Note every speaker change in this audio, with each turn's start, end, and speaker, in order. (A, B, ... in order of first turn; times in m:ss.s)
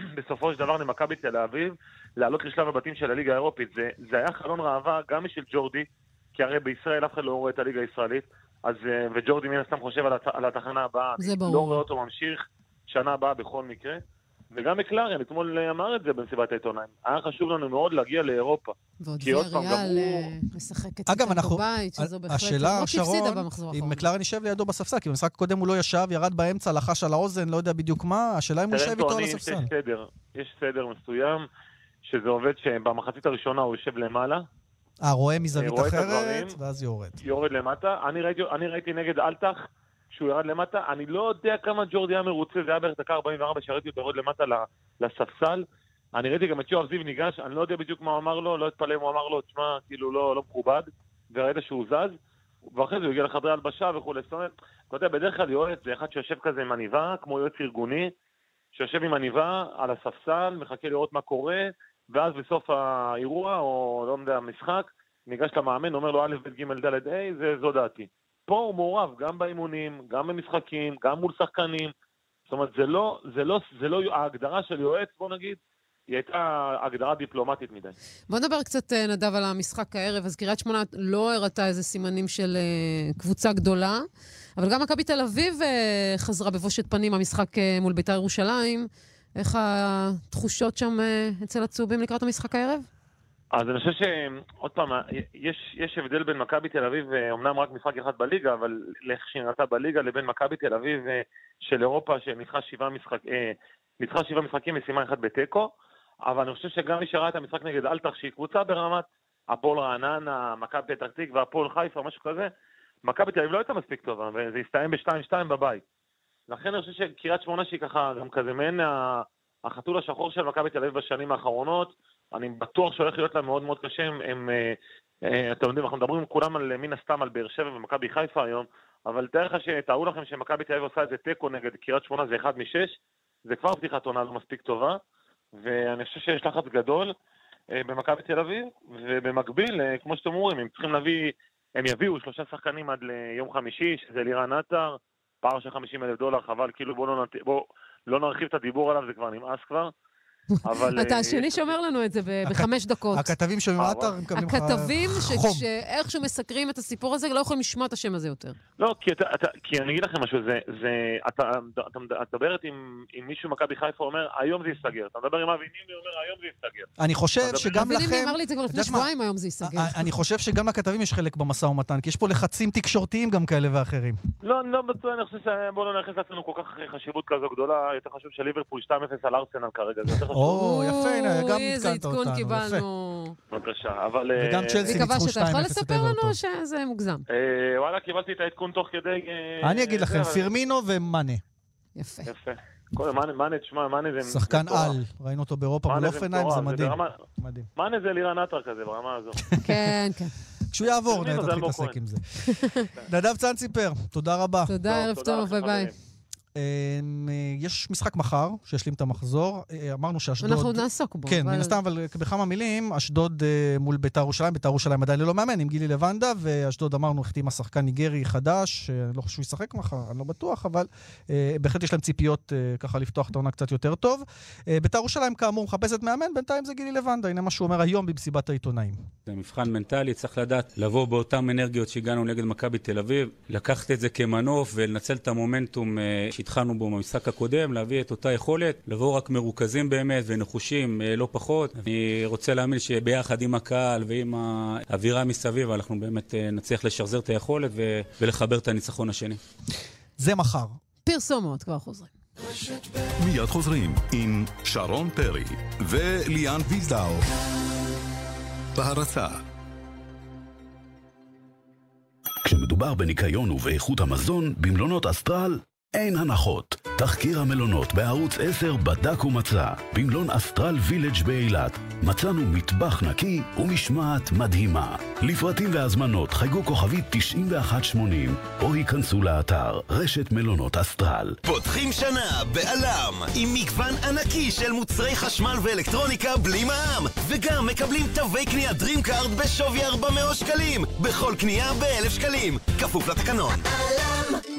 0:00.2-0:14.0 A
0:11.2-0:11.8 B
0:14.5-0:20.2 A
0:19.0-0:24.1 B
0:21.1-0:29.7 C
0:28.7-0:31.5 A
0:32.0-0:34.4 A
0:35.0-0:37.1 C
0:35.5-0:36.6 A
0:37.2-0:45.6 A
0:46.2-0:52.2 A
0:52.7-0:58.1 A
0:58.8-1:11.9 A
1:12.5-1:15.6 A
1:16.1-1:18.0 A
1:18.3-1:24.0 B
1:24.6-1:32.9 B
1:33.5-1:45.7 A
1:46.3-1:52.5 A
1:53.1-1:55.8 A
1:56.5-2:13.0 A
2:13.5-2:15.0 A
2:15.5-2:17.1 A
2:17.7-2:29.9 A
2:30.6-2:33.3 B
2:30.6-2:31.7 A
2:32.4-2:35.7 C
2:33.8-2:34.1 A
2:34.4-2:38.6 B
2:38.8-2:46.9 A
2:47.0-2:49.1 C
2:47.4-2:47.8 A
2:47.7-2:50.1 B
2:49.6-2:54.2 C
2:54.4-3:00.6 A
3:00.3-3:02.8 C
3:00.5-3:03.4 B
3:03.5-3:05.0 A
3:04.4-3:06.4 C
3:04.8-3:07.2 B
3:07.3-3:10.5 A
3:09.6-3:11.4 C
3:12.0-3:12.3 B
3:12.2-3:15.0 A
3:14.3-3:17.7 C
3:15.9-3:17.1 A
3:17.8-3:19.4 A
3:19.6-3:19.9 C
3:19.6-3:20.4 B
3:20.7-3:22.2 C
3:20.8-3:22.0 A
3:22.6-3:22.8 B
3:23.1-3:24.8 C
3:24.7-3:25.9 B
3:24.9-3:25.9 A
3:26.6-3:49.0 C
3:30.4-3:31.8 B
3:49.3-4:09.4 D
4:10.2-4:10.8 C
4:11.0-4:12.1 B
4:13.2-4:17.3 E
4:18.8-4:19.4 E
4:22.4-4:41.4 F
4:41.5-4:53.6 G